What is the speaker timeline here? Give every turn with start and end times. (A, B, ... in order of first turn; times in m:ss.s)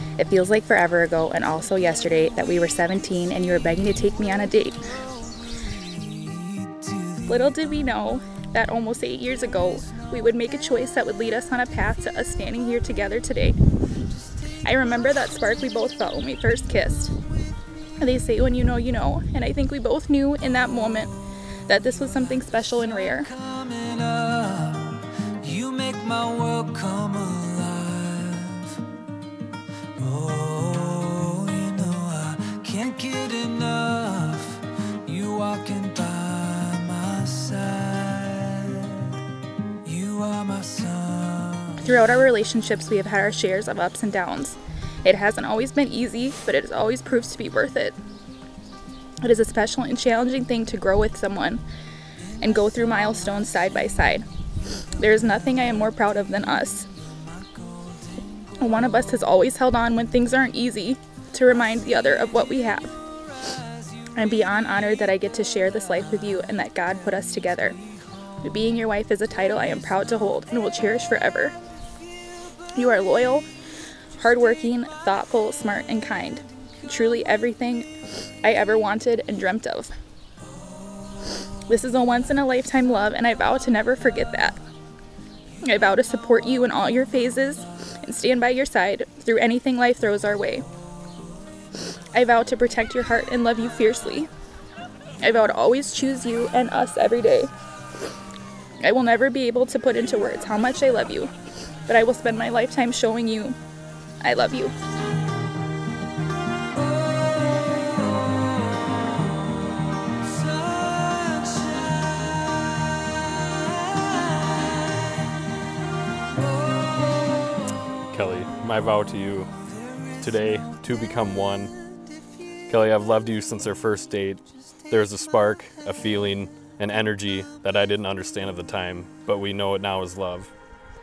0:00.2-0:04.8 A
0:05.9-0:07.2 B
0:07.3-0:13.6 A
0:14.6-0:17.1 A
0:18.0-0:21.1 A
0:21.7-0:23.3 A
0:23.3-0:28.8 B
0:30.0-0:39.2 B
0:39.8-0:41.8 B
0:41.8-0:48.0 A
0:49.2-0:51.6 A
0:52.4-0:54.2 A
0:55.0-0:56.9 A
0:58.6-1:02.9 A
1:04.2-1:07.8 A
1:08.4-1:11.6 A
1:12.8-1:13.5 A
1:14.2-1:19.9 A
1:21.7-1:24.6 A
1:25.6-1:30.7 A
1:32.1-1:34.3 A
1:35.2-1:37.5 A
1:38.8-1:41.3 A
1:41.9-1:43.6 A
1:44.2-1:44.7 A
1:50.9-1:51.7 B
1:58.1-1:59.5 C
2:00.2-2:01.7 C
2:02.7-2:10.5 C